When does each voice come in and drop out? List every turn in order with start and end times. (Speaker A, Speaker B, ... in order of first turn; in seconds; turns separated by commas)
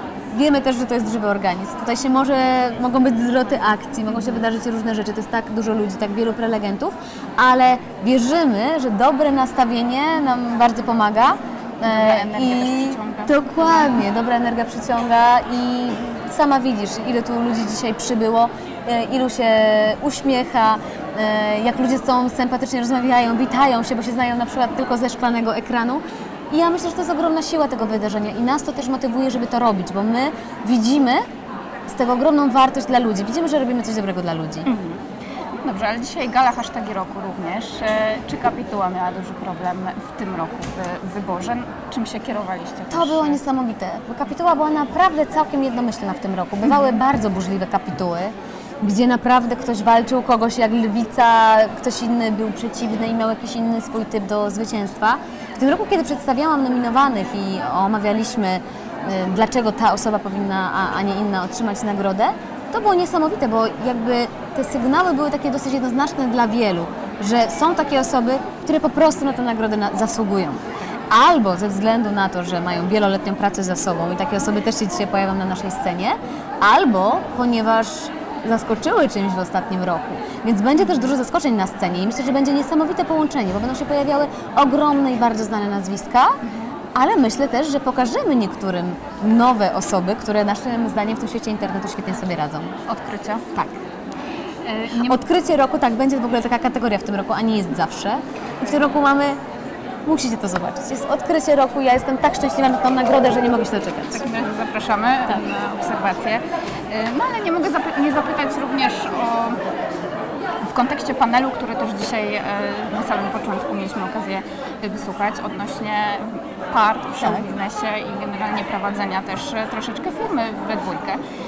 Speaker A: 0.3-31.2, Speaker B: 4.1-4.4, Speaker B: 11.8-14.0, Speaker A: 31.9-34.7, Speaker B: 34.6-35.0, Speaker B: 35.6-43.4, Speaker A: 42.9-86.4, Speaker B: 80.8-81.1, Speaker A: 86.9-92.8, Speaker B: 92.9-93.5, Speaker B: 94.6-95.2, Speaker A: 94.9-99.4, Speaker A: 100.0-104.2, Speaker B: 104.1-109.6, Speaker B: 110.6-121.2, Speaker A: 117.2-117.5